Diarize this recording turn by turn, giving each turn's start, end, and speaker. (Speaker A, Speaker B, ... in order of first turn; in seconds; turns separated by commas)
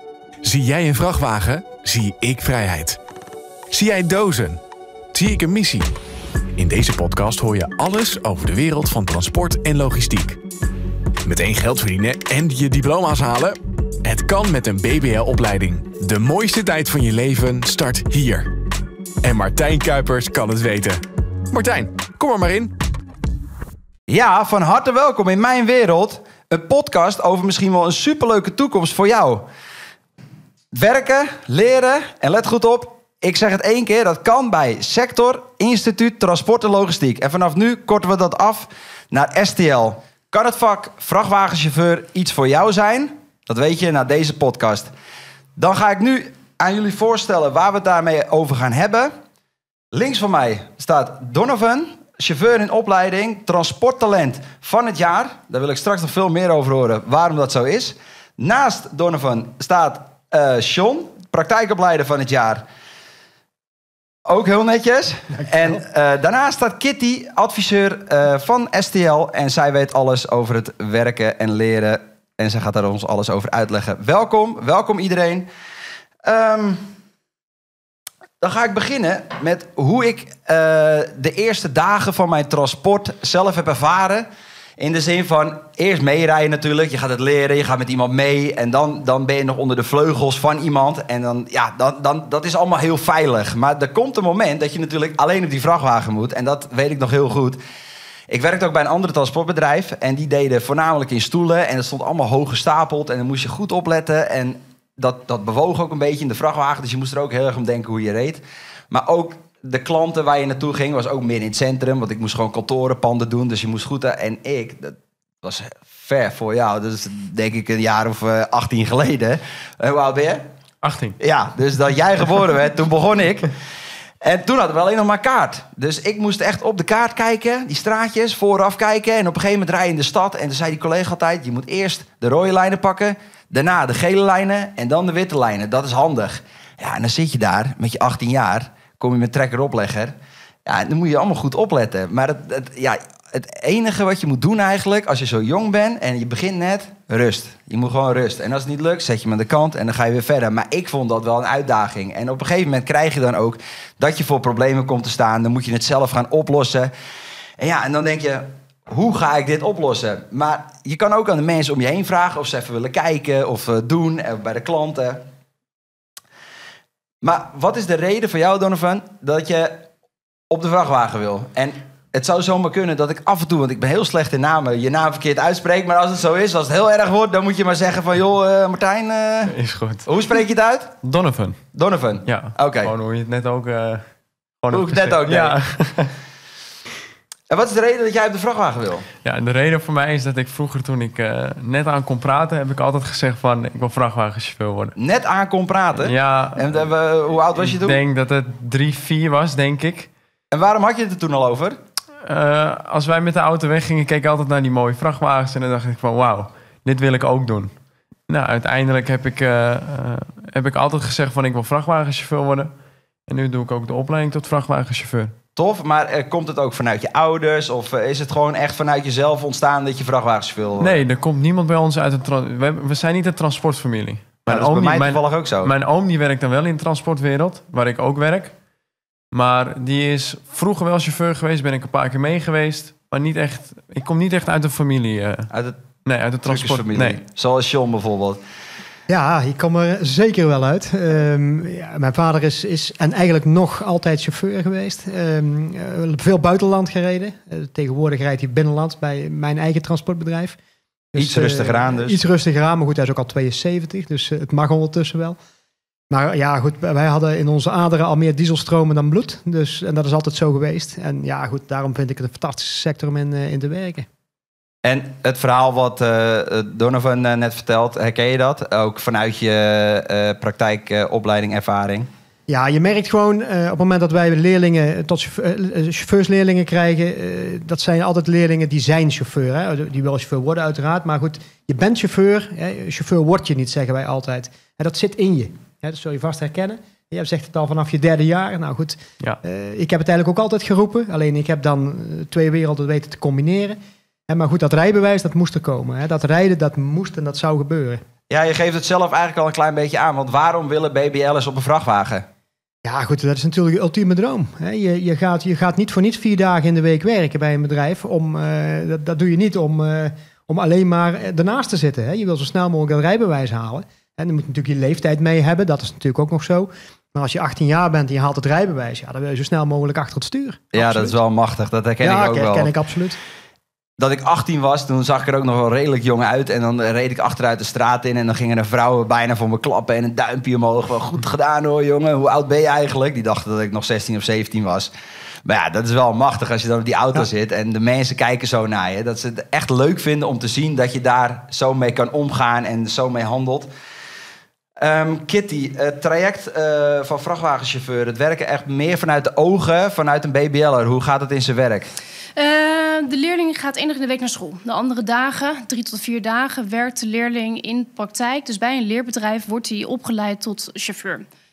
Speaker A: 0.4-3.0, Speaker A: 3.7-4.6, Speaker A: 5.1-5.9, Speaker A: 6.6-10.4, Speaker A: 11.2-18.5, Speaker A: 19.2-22.7, Speaker B: 24.1-29.5, Speaker B: 30.7-44.9, Speaker B: 45.5-49.1, Speaker B: 49.9-62.6, Speaker B: 64.2-75.5, Speaker B: 76.2-76.8, Speaker B: 78.4-84.3, Speaker B: 84.8-97.6, Speaker B: 98.3-120.4, Speaker C: 120.8-121.2, Speaker B: 121.2-123.5, Speaker B: 124.2-140.1, Speaker B: 140.7-156.9, Speaker B: 157.6-165.2, Speaker B: 167.2-169.9, Speaker B: 170.5-180.9, Speaker C: 179.5-180.1, Speaker C: 181.0-181.6, Speaker B: 181.7-182.9, Speaker C: 182.2-184.0, Speaker C: 184.6-186.1, Speaker B: 184.7-185.6, Speaker B: 187.5-189.1, Speaker C: 189.2-194.9, Speaker B: 195.0-198.0, Speaker C: 195.9-196.9, Speaker C: 197.5-200.1, Speaker B: 200.5-201.8, Speaker C: 202.2-207.7, Speaker C: 208.3-212.7, Speaker C: 213.3-215.3, Speaker B: 215.6-221.0, Speaker C: 220.8-228.5, Speaker B: 224.5-225.7, Speaker C: 229.3-235.5, Speaker B: 235.5-235.8, Speaker C: 236.0-237.2, Speaker B: 236.4-238.4, Speaker D: 239.1-250.6, Speaker D: 251.1-255.4, Speaker B: 251.2-252.2, Speaker D: 256.1-264.1, Speaker B: 264.8-272.1, Speaker D: 272.5-298.0, Speaker B: 298.3-302.2, Speaker D: 302.8-321.2, Speaker B: 320.7-322.7, Speaker D: 322.0-323.2, Speaker B: 324.0-334.9, Speaker B: 335.4-343.7, Speaker B: 344.8-351.9, Speaker E: 352.4-361.2